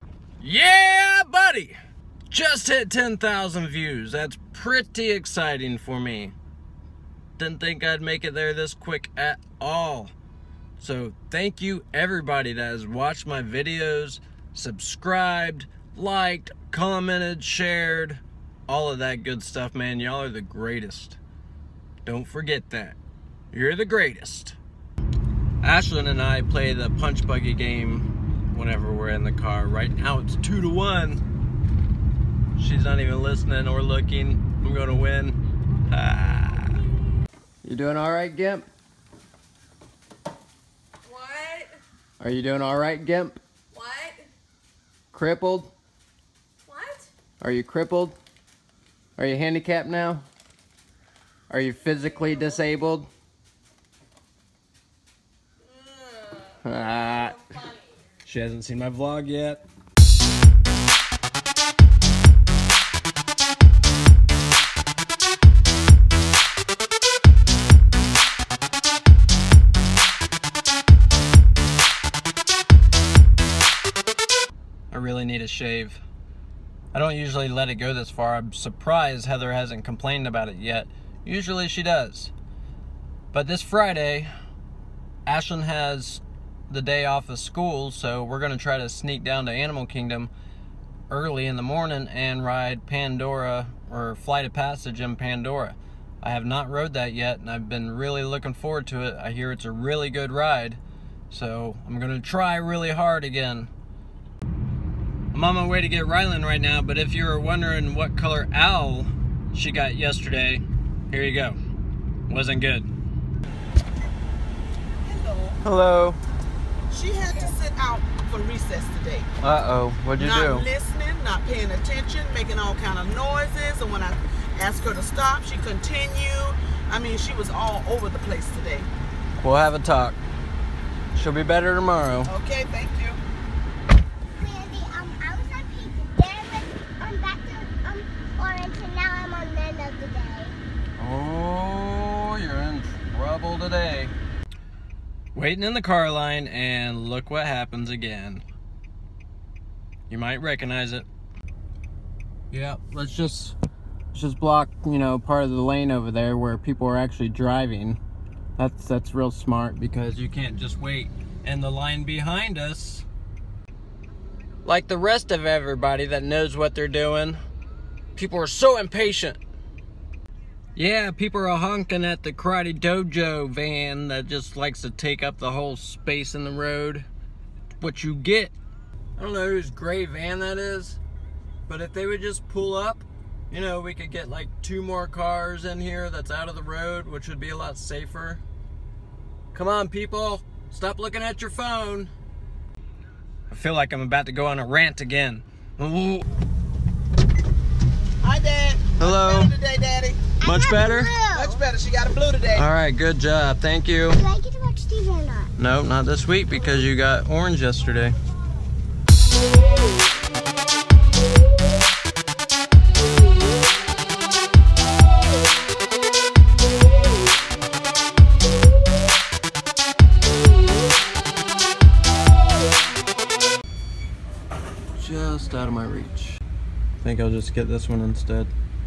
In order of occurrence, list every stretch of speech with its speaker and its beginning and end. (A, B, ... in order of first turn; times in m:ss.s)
0:00.4-0:01.8 A
0:02.3-0:06.4 A
0:07.4-0:10.1 A
0:10.8-0:21.2 A
0:22.0-0:23.0 A
0:23.5-0:24.6 A
0:25.6-0:31.2 A
0:32.6-0:35.4 A
0:35.9-0:36.8 A
0:37.6-0:38.7 A
0:41.0-0:41.8 B
0:42.2-0:43.4 A
0:43.7-0:44.3 B
0:45.1-0:45.7 A
0:46.7-0:47.1 B
0:47.4-0:48.2 A
0:49.2-0:50.2 A
0:51.5-0:53.1 A
0:55.7-0:57.7 B
0:56.6-0:57.4 A
0:58.2-0:59.6 A
1:14.9-1:16.0 A
1:16.9-1:22.3 A
1:23.3-1:24.3 A
1:25.3-1:30.3 A
1:31.1-1:40.8 A
1:41.3-1:43.7 A
1:45.3-1:51.6 A
1:52.3-1:52.9 A
1:55.0-1:55.6 C
1:55.6-1:56.2 A
1:56.9-1:59.3 C
1:59.4-2:00.7 A
2:00.2-2:08.9 C
2:09.4-2:10.2 A
2:11.1-2:12.3 A
2:12.3-2:13.2 C
2:14.4-2:20.6 D
2:21.0-2:24.1 A
2:25.3-2:28.4 A
2:30.1-2:31.1 A
2:32.5-2:33.6 A
2:34.1-2:38.0 A
2:38.6-2:43.1 A
2:44.6-2:47.4 A
2:48.2-2:49.4 A
2:50.8-2:57.1 A
2:57.8-2:58.5 A
2:59.2-3:01.0 A
3:01.7-3:08.4 A
3:09.5-3:12.1 A
3:13.5-3:16.2 A
3:18.2-3:20.2 C
3:19.0-3:19.5 A
3:20.4-3:21.6 D
3:20.4-3:21.1 A
3:21.3-3:22.7 C
3:22.5-3:24.2 A
3:24.1-3:25.5 D
3:25.6-3:28.2 A
3:44.9-3:46.4 A
3:47.0-3:48.5 A